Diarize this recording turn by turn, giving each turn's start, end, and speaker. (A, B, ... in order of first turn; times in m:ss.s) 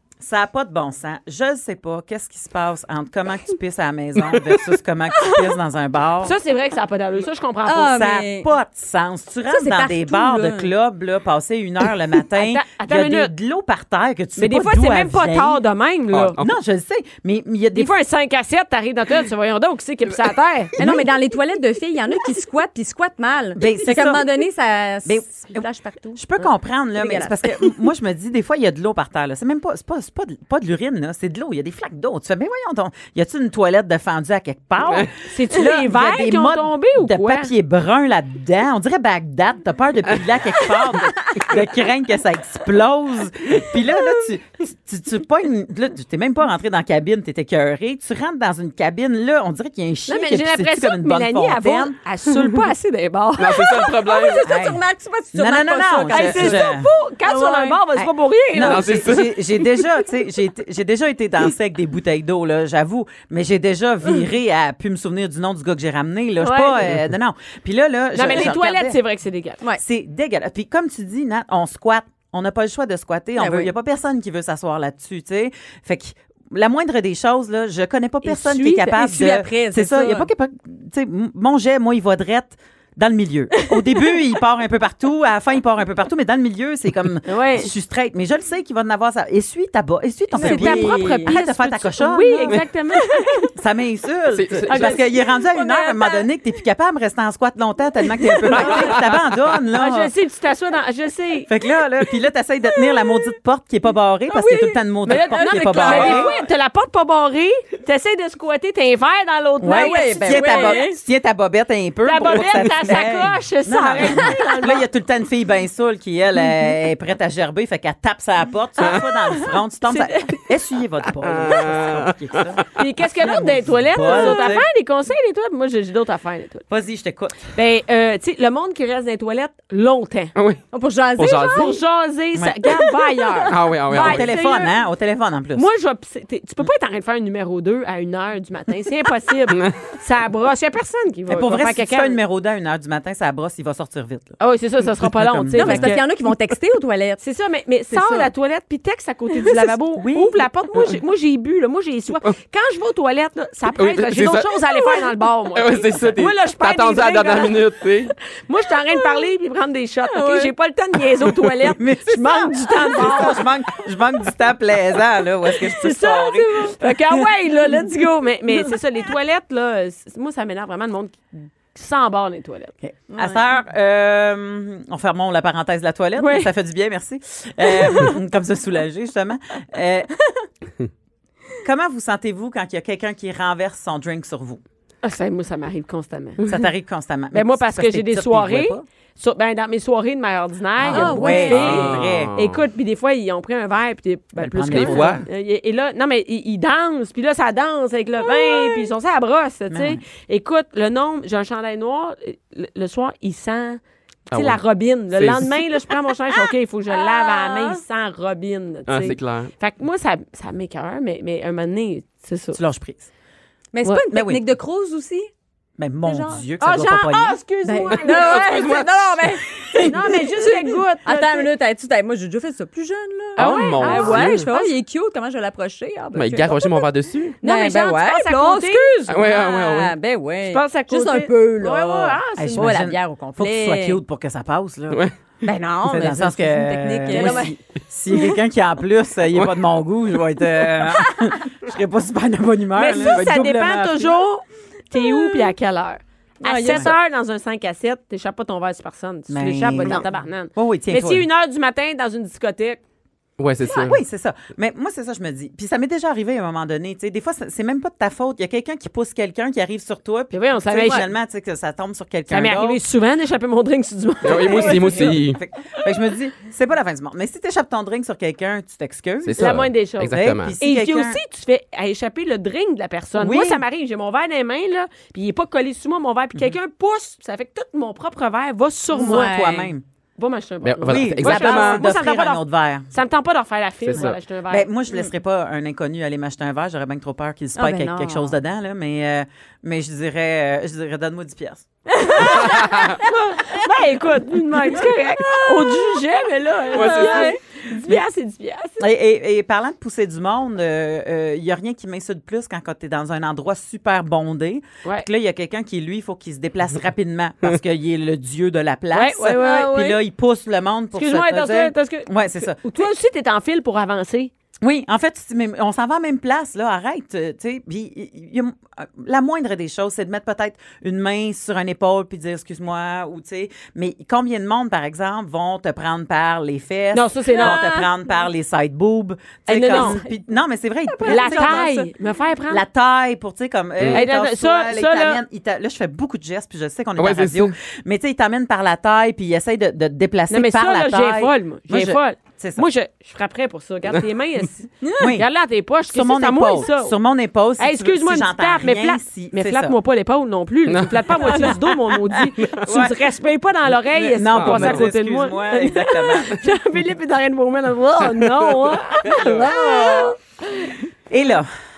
0:00.2-0:06.4 A
0:06.2-0:08.1 B
0:07.6-0:08.5 C
0:07.8-0:15.6 A
0:09.5-0:10.7 C
0:12.4-0:13.3 B
0:14.4-0:16.4 B
0:16.1-0:16.5 D
0:16.4-0:17.9 A
0:17.7-0:20.8 B
0:20.8-0:21.0 A
0:20.8-0:26.2 C
0:23.6-0:24.3 A
0:25.0-0:52.0 A
0:27.0-0:27.8 C
0:35.2-0:37.5 B
0:50.1-0:53.9 B
0:53.4-0:54.4 D
0:53.6-0:57.8 C
0:54.4-0:54.8 A
0:55.3-0:56.9 A
0:56.1-0:59.0 B
0:58.0-1:09.0 A
0:58.6-0:59.4 D
1:06.4-1:06.9 B
1:08.1-1:09.6 B
1:09.8-1:32.6 A
1:13.4-1:13.7 C
1:18.2-1:18.9 B
1:18.8-1:20.3 C
1:27.3-1:27.7 B
1:30.3-1:31.3 C
1:30.4-1:33.5 B
1:32.9-1:33.5 C
1:33.5-1:40.1 A
1:34.3-1:35.0 D
1:34.7-1:35.0 B
1:35.0-1:36.2 C
1:38.4-1:38.9 C
1:38.6-1:38.9 B
1:38.6-1:39.2 D
1:39.7-1:41.5 B
1:41.5-1:46.3 A
1:44.3-1:46.4 C
1:45.0-1:50.9 B
1:49.6-2:02.6 A
1:49.7-1:51.0 C
1:52.0-1:54.8 B
1:59.9-2:00.4 B
2:01.2-2:02.6 D
2:02.8-2:06.6 B
2:03.2-2:04.6 A
2:04.1-2:04.5 C
2:06.7-2:07.5 A
2:07.5-2:10.3 B
2:10.4-2:10.6 D
2:10.7-2:11.8 C
2:11.2-2:11.7 D
2:11.5-2:14.7 B
2:12.3-2:12.7 A
2:13.5-2:14.3 D
2:13.9-2:15.7 A
2:15.6-2:22.2 B
2:21.3-2:24.4 A
2:24.4-2:26.0 B
2:25.0-2:26.0 A
2:25.5-2:27.2 C
2:27.2-2:43.5 B
2:27.9-2:28.3 C
2:29.9-2:30.4 A
2:33.7-2:34.6 D
2:35.5-2:38.1 D
2:40.1-2:40.5 C
2:41.6-2:47.2 A
2:45.6-2:52.7 B
2:52.8-3:00.1 A
2:53.1-2:53.4 C
2:56.2-2:56.5 B
3:01.6-3:04.6 A
3:05.0-3:06.5 B
3:06.4-3:08.8 A
3:07.3-3:23.8 B
3:10.8-3:12.3 A
3:10.8-3:11.7 C
3:11.5-3:12.6 D
3:14.4-3:15.2 A
3:14.7-3:15.2 D
3:18.2-3:18.8 C
3:19.7-3:20.0 A
3:24.3-3:24.6 D
3:24.3-3:32.6 B
3:25.1-3:25.6 D
3:26.9-3:27.8 C
3:28.9-3:29.5 D
3:32.5-3:33.1 A
3:33.7-3:35.3 C
3:34.1-3:34.4 A
3:35.8-3:37.4 A
3:36.0-3:36.4 C
3:36.6-3:38.7 B
3:37.6-3:46.9 C
3:38.0-3:38.9 D
3:39.8-3:41.5 B
3:43.4-3:44.5 D
3:43.4-3:44.7 B
3:46.1-3:47.4 D
3:47.4-3:49.0 B
3:47.4-3:54.0 C
3:49.1-3:49.9 D
3:50.5-3:52.9 B
3:52.4-3:55.0 A
3:55.4-3:57.5 C
3:55.8-4:04.2 A
3:57.1-3:57.4 B
4:02.7-4:12.8 B
4:06.4-4:06.9 C
4:09.3-4:11.2 A
4:13.4-4:14.0 D
4:13.7-4:22.8 A
4:20.3-4:21.1 B
4:22.3-4:25.2 B
4:24.2-4:25.4 D
4:24.4-4:31.2 A
4:29.2-4:30.5 D
4:29.4-4:39.4 B
4:33.2-4:33.6 A
4:38.9-4:39.7 C
4:38.9-4:39.8 A
4:40.2-4:44.7 B
4:40.6-4:41.9 D
4:40.8-4:42.9 A
4:43.8-4:44.2 D
4:44.0-4:51.6 A
4:47.6-4:48.3 C
4:52.0-4:53.7 C
4:52.2-4:53.0 D
4:53.0-4:58.8 B
4:54.7-4:55.8 C
4:56.7-4:57.4 C
4:56.7-4:57.3 D
4:58.8-5:12.6 A
5:08.9-5:10.0 B
5:09.3-5:09.9 C
5:10.9-5:14.3 B
5:14.6-5:31.8 A
5:26.9-5:27.7 B
5:27.3-5:27.9 C
5:29.5-5:30.0 B
5:29.7-5:30.2 C
5:30.9-5:31.9 C
5:31.0-5:32.6 B
5:32.5-5:42.6 A
5:33.8-5:34.0 D
5:33.9-5:35.2 B
5:37.0-5:37.5 D
5:40.3-5:47.0 B
5:44.8-5:45.1 C
5:45.0-5:45.3 A
5:45.9-5:49.7 A
5:47.6-6:00.7 B
5:50.7-5:51.0 D
5:51.2-5:53.0 A
5:51.3-5:51.5 C
5:53.9-5:56.4 A
5:54.3-5:54.9 D
5:58.2-5:58.5 D
5:59.0-6:00.1 A
5:59.1-5:59.4 D
5:59.6-6:00.1 C
6:01.1-6:01.5 A